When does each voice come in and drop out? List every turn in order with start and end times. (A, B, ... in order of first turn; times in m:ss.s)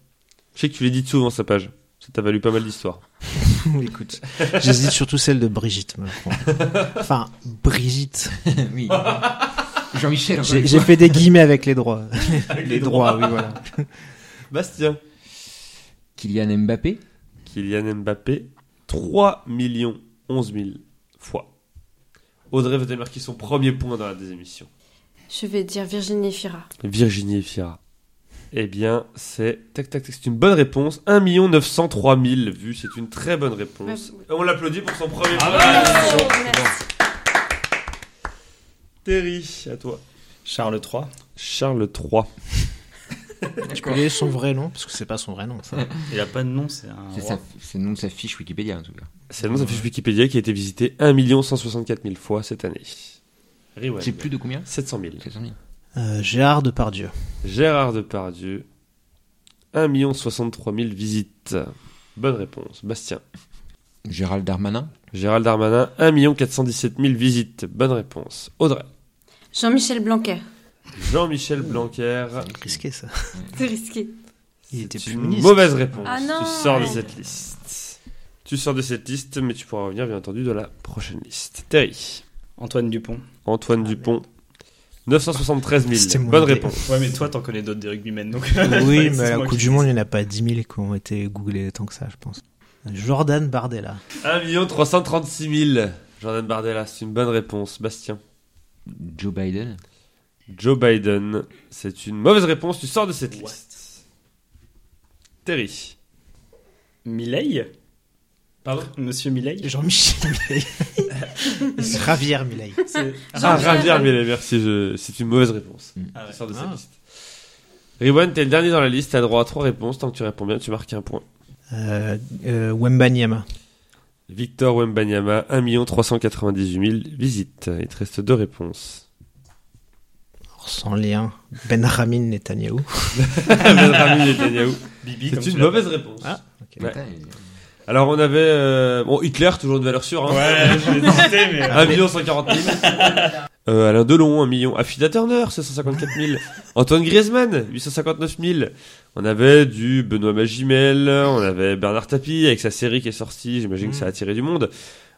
0:00.6-0:03.0 A
0:03.4-0:08.4 B
0:04.4-0:04.8 A
0:06.5-0:07.0 A
0:08.4-0:09.3 C
0:08.9-0:09.7 A
0:09.9-0:11.2 C
0:10.4-0:13.9 B
0:12.4-0:13.5 A
0:14.5-0:15.0 A
0:16.2-0:17.0 C
0:17.4-0:21.5 A
0:22.5-0:24.7 A
0:25.3-0:26.7 D
0:26.8-0:27.8 A
0:28.5-0:36.4 A
0:33.8-0:34.2 D
0:35.4-0:36.3 E
0:35.4-0:36.8 D
0:35.5-0:36.7 C
0:39.0-0:40.0 A
0:40.4-0:41.1 E
0:41.4-0:42.3 A
0:43.7-0:45.9 B
0:43.7-0:44.0 C
0:46.1-0:47.4 E
0:47.1-0:49.1 C
0:49.3-0:53.2 A
0:49.4-0:49.8 B
0:53.8-0:55.2 A
0:54.0-0:54.7 C
0:55.2-0:55.6 C
0:55.9-0:57.1 B
0:57.4-0:58.6 A
0:59.7-1:03.2 A
1:04.0-1:04.9 C
1:05.1-1:08.8 A
1:09.5-1:10.4 D
1:11.0-1:12.5 A
1:11.6-1:12.8 C
1:12.6-1:13.3 B
1:13.5-1:14.1 D
1:14.7-1:15.8 B
1:14.7-1:22.2 A
1:16.0-1:17.1 D
1:17.2-1:17.5 C
1:22.6-1:23.2 E
1:23.4-1:24.2 A
1:23.8-1:24.1 B
1:25.1-1:26.9 A
1:25.9-1:26.8 B
1:26.8-1:29.9 E
1:28.6-1:34.0 B
1:34.2-1:38.2 A
1:38.9-1:39.8 C
1:40.5-1:43.8 A
1:43.3-1:43.7 E
1:45.4-1:45.9 A
1:47.0-1:47.7 E
1:48.6-1:48.9 A
1:48.9-1:49.7 E
1:49.6-1:51.1 B
1:51.7-1:52.8 B
1:52.9-1:54.0 E
1:52.9-1:54.1 D
1:53.3-1:56.9 A
1:56.1-1:56.4 E
1:56.5-1:56.8 B
1:58.0-2:01.2 A
2:01.7-2:03.4 B
2:04.3-2:09.0 A
2:10.6-2:13.3 B
2:13.2-2:17.0 A
2:15.0-2:15.9 E
2:16.2-2:16.9 B
2:16.8-2:17.4 C
2:17.9-2:34.7 A
2:20.3-2:23.3 E
2:21.7-2:22.0 B